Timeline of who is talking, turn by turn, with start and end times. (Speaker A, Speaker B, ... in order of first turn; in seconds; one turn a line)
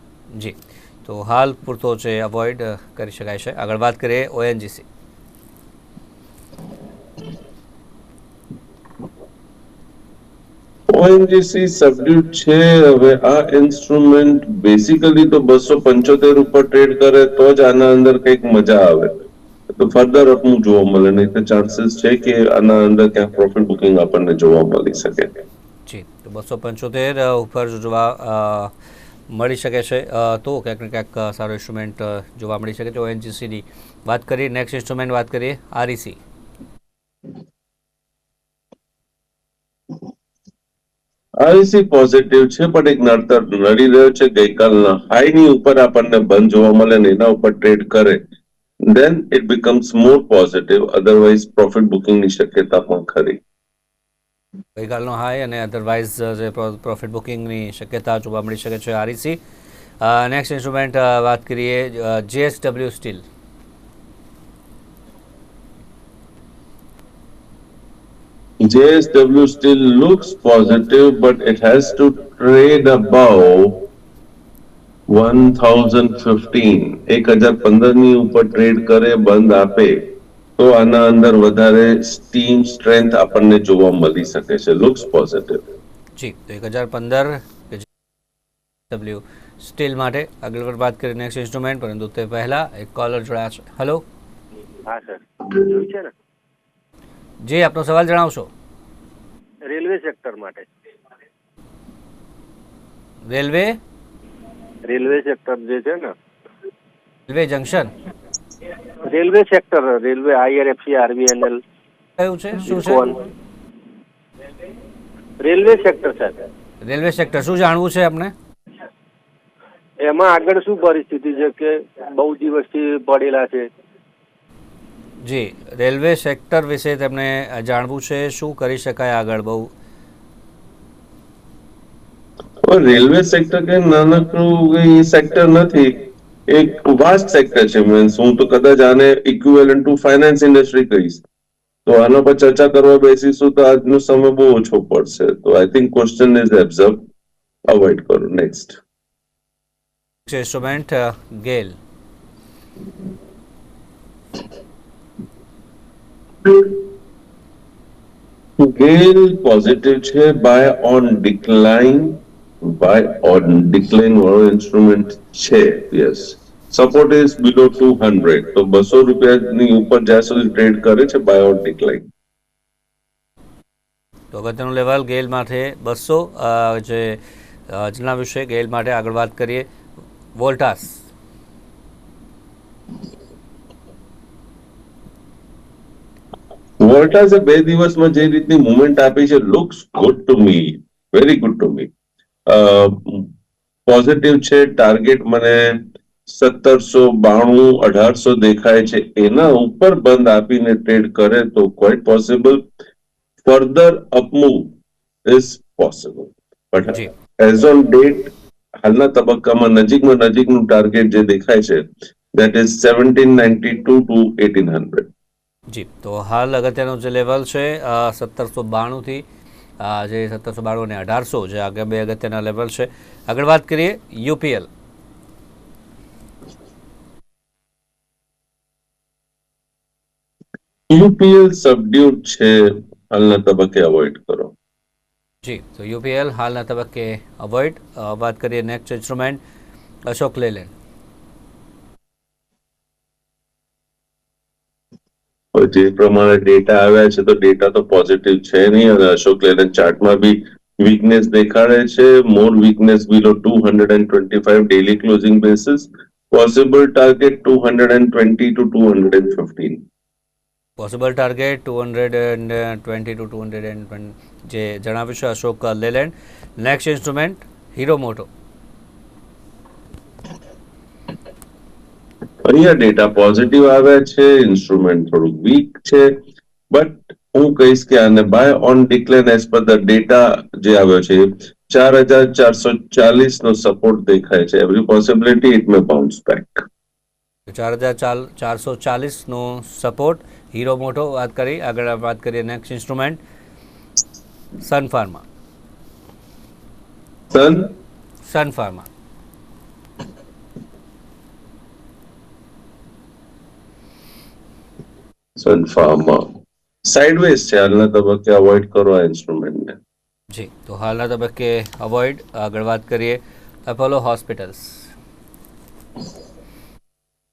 Speaker A: 0.3-4.8
Speaker B: 10.9-19.1
Speaker B: 19.7-25.3
Speaker A: 25.9-28.7
Speaker A: 29.3-36.2
Speaker B: 41.4-48.2
Speaker B: 48.8-53.4
Speaker A: 54.8-59.4
Speaker A: 60.0-63.2
Speaker B: 68.6-73.8
Speaker B: 75.1-85.6
Speaker A: 86.2-87.8
Speaker A: 88.9-94.0
Speaker C: 94.8-96.1
Speaker A: 97.4-98.5
Speaker C: 99.6-100.7
Speaker A: 103.3-103.8
Speaker C: 104.9-106.1
Speaker A: 107.3-107.9
Speaker C: 109.0-111.6
Speaker A: 112.2-113.1
Speaker C: 112.7-113.1
Speaker C: 115.4-116.4
Speaker A: 116.8-118.3
Speaker C: 120.0-123.7
Speaker A: 125.2-129.7
Speaker B: 132.6-141.2
Speaker B: 141.8-147.0
Speaker B: 147.7-148.8
Speaker A: 150.3-151.8
Speaker B: 158.6-172.0
Speaker A: 174.3-179.7
Speaker A: 180.3-181.0
Speaker B: 186.8-191.9
Speaker B: 192.5-193.3
Speaker B: 193.9-202.6
Speaker B: 203.4-204.7
Speaker B: 205.2-215.1
Speaker A: 215.7-219.2
Speaker A: 219.8-224.7
Speaker B: 230.9-234.5
Speaker A: 235.4-239.4
Speaker A: 240.1-240.7
Speaker B: 245.5-259.8
Speaker A: 260.8-268.3
Speaker B: 272.4-276.2
Speaker B: 276.7-286.6
Speaker A: 287.5-293.2
Speaker A: 294.6-295.2
Speaker B: 297.3-297.7
Speaker A: 298.2-298.9
Speaker B: 305.4-309.8
Speaker A: 310.3-314.9